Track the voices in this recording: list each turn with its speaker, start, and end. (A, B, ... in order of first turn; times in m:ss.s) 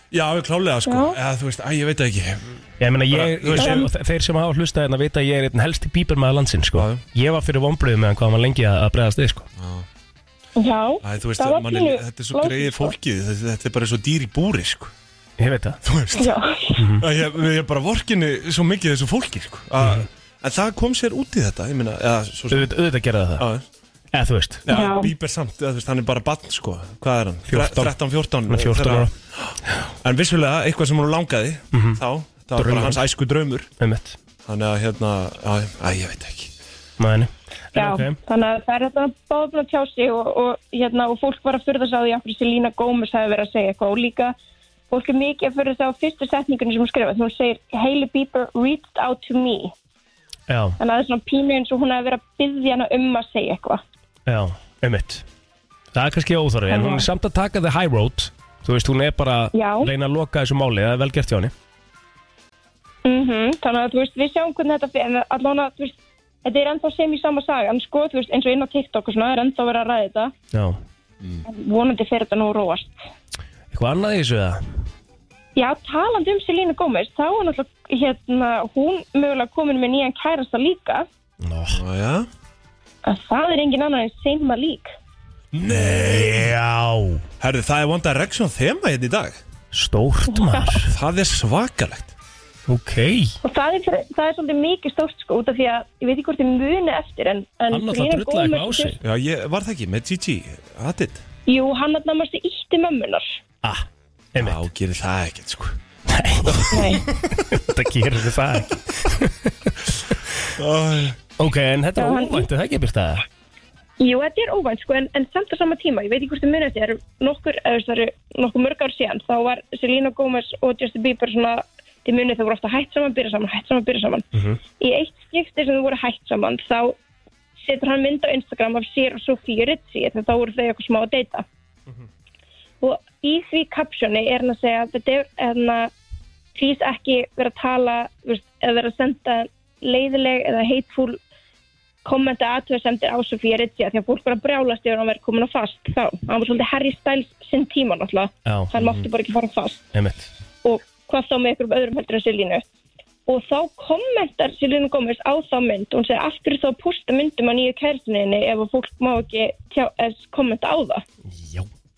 0:00.1-0:02.6 A
0:00.9-0:01.2 B
0:02.8-0:09.5 C
0:03.1-0:03.9 A
0:03.6-0:03.9 B
0:06.8-0:07.0 A
0:09.6-0:09.9 A
0:10.6-0:12.9 B
0:11.0-0:14.9 A
0:15.4-0:15.8 C
0:15.8-0:16.3 A
0:16.2-0:16.8 B
0:16.8-0:17.0 C
0:17.0-0:22.7 A
0:22.5-0:23.4 C
0:23.4-0:23.6 A
0:24.1-0:24.7 C
0:24.7-0:33.7 A
0:24.7-0:25.1 B
0:27.5-0:28.0 C
0:28.5-0:29.1 C
0:31.7-0:32.0 C
0:32.6-0:33.0 C
0:33.8-0:34.2 C
0:34.4-0:36.5 A
0:37.0-0:38.2 C
0:37.8-0:44.4 B
0:44.9-0:49.7 B
0:50.5-0:50.8 C
0:50.8-0:53.8 B
0:54.3-0:55.2 C
0:55.9-1:01.5 C
0:56.7-0:57.1 B
0:59.5-0:59.9 B
1:03.0-1:10.3 B
1:10.5-1:10.8 C
1:11.4-1:13.0 B
1:13.7-1:14.6 C
1:15.6-1:21.1 B
1:21.4-1:21.8 C
1:21.7-1:22.3 A
1:23.0-1:24.9 B
1:25.5-1:26.5 A
1:25.7-1:27.2 C
1:27.4-1:29.4 A
1:29.7-1:30.9 C
1:30.3-1:30.8 B
1:30.9-1:32.1 A
1:32.7-1:33.4 C
1:33.4-1:39.0 B
1:37.7-1:39.0 C
1:39.0-1:41.2 A
1:41.5-1:43.4 B
1:43.6-1:44.6 C
1:44.4-1:45.8 A
1:46.1-1:50.1 C
1:46.4-1:46.8 A
1:46.7-1:47.1 B
1:50.6-1:51.2 A
1:51.4-1:53.2 C
1:52.0-1:52.5 B
1:54.0-2:04.3 B
2:04.3-2:04.6 C
2:04.8-2:07.0 B
2:07.6-2:11.5 B
2:12.8-2:15.9 B
2:16.6-2:21.2 B
2:22.0-2:29.9 B
2:28.4-2:28.7 C
2:28.8-2:29.1 A
2:29.9-2:30.3 C
2:30.6-2:32.6 B
2:33.3-2:41.0 B
2:41.3-2:41.7 C